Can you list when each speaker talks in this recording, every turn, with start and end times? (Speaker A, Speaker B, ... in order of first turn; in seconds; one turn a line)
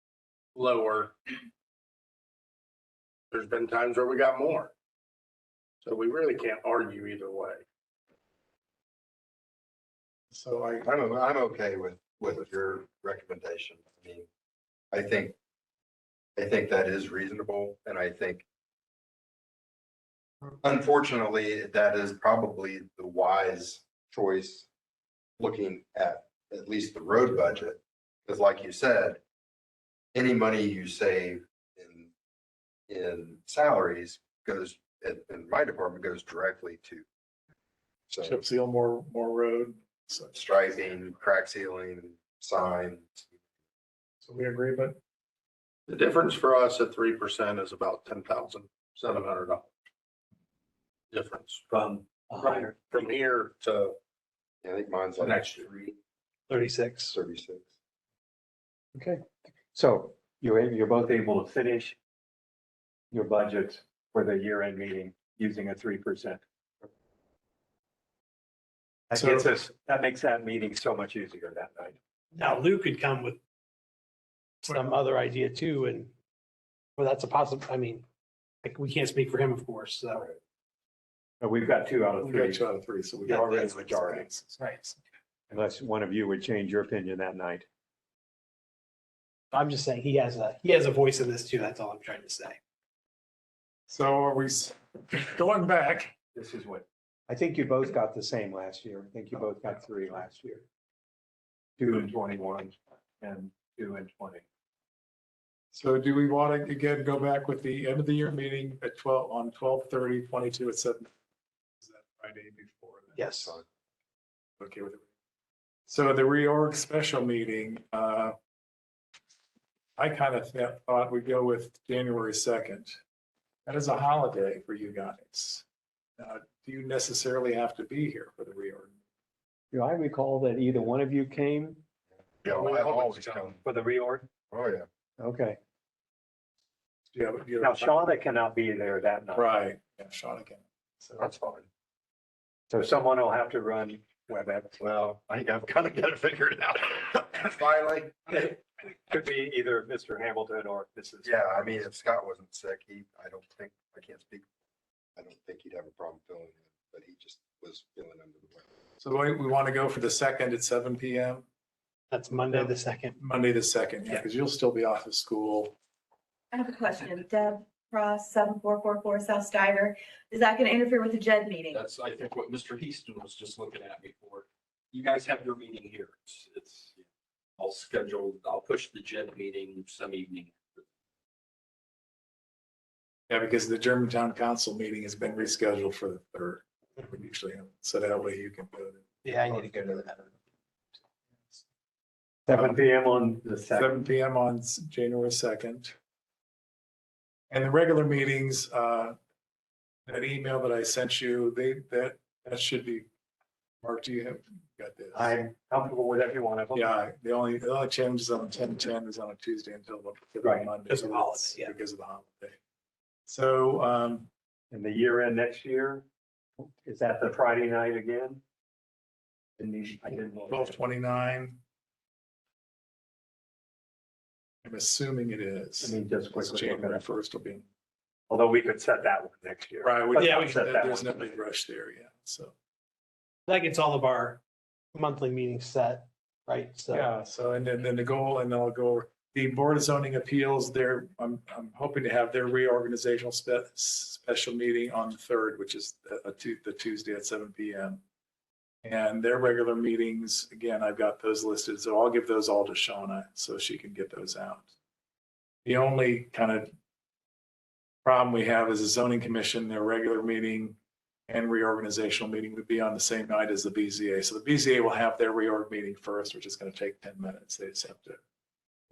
Speaker A: 0.6-1.2
Speaker A: 3.3-4.7
Speaker A: 5.8-7.6
Speaker B: 10.3-10.9
Speaker C: 10.8-14.3
Speaker C: 14.9-15.3
Speaker C: 16.4-18.4
Speaker C: 20.6-24.7
Speaker C: 25.4-29.2
Speaker C: 30.1-32.1
Speaker C: 32.9-37.1
Speaker C: 38.1-38.4
Speaker B: 38.2-40.5
Speaker C: 40.3-43.3
Speaker B: 44.2-45.0
Speaker A: 45.9-49.7
Speaker A: 51.1-51.6
Speaker D: 51.7-53.1
Speaker A: 52.3-54.0
Speaker C: 54.6-56.0
Speaker A: 55.1-55.7
Speaker E: 56.5-57.1
Speaker C: 57.1-57.7
Speaker D: 59.0-62.0
Speaker D: 63.1-66.9
Speaker D: 69.1-72.0
Speaker B: 69.2-69.5
Speaker E: 72.3-73.4
Speaker E: 74.6-76.1
Speaker E: 77.0-78.0
Speaker E: 78.6-80.3
Speaker D: 81.4-82.7
Speaker B: 82.2-85.0
Speaker D: 83.2-84.3
Speaker D: 85.5-87.7
Speaker E: 89.5-92.6
Speaker B: 93.9-96.1
Speaker D: 96.3-100.7
Speaker D: 101.8-104.4
Speaker B: 105.7-111.1
Speaker B: 111.8-113.5
Speaker E: 113.2-113.5
Speaker B: 114.6-115.1
Speaker B: 115.9-118.3
Speaker B: 120.0-123.0
Speaker B: 123.7-125.6
Speaker B: 126.2-128.9
Speaker D: 129.7-131.8
Speaker C: 132.4-133.6
Speaker A: 132.5-133.4
Speaker D: 133.6-134.3
Speaker C: 134.5-134.9
Speaker D: 135.2-135.6
Speaker B: 137.1-138.1
Speaker D: 137.6-139.5
Speaker B: 139.3-141.3
Speaker C: 141.2-141.7
Speaker D: 142.7-144.8
Speaker C: 144.8-148.5
Speaker D: 148.3-151.8
Speaker C: 151.2-154.5
Speaker C: 155.2-158.7
Speaker B: 159.0-161.4
Speaker E: 162.1-163.2
Speaker B: 162.5-165.8
Speaker F: 166.5-171.8
Speaker G: 171.7-177.0
Speaker G: 177.6-180.8
Speaker B: 183.3-189.6
Speaker E: 189.2-190.3
Speaker D: 192.5-193.9
Speaker B: 193.7-195.9
Speaker B: 197.5-199.2
Speaker B: 200.1-203.1
Speaker B: 203.8-205.3
Speaker D: 205.1-206.9
Speaker B: 206.8-212.5
Speaker E: 210.9-211.7
Speaker B: 213.3-214.3
Speaker D: 214.7-216.1
Speaker D: 216.6-218.4
Speaker D: 219.6-220.8
Speaker B: 220.5-221.6
Speaker B: 224.6-227.7
Speaker D: 225.8-227.0
Speaker D: 228.3-231.3
Speaker B: 229.8-232.5
Speaker E: 230.2-230.5
Speaker E: 233.5-234.4
Speaker E: 234.9-237.1
Speaker B: 236.9-248.0
Speaker B: 248.8-254.7
Speaker B: 255.7-256.7
Speaker B: 258.1-260.8
Speaker B: 261.3-268.2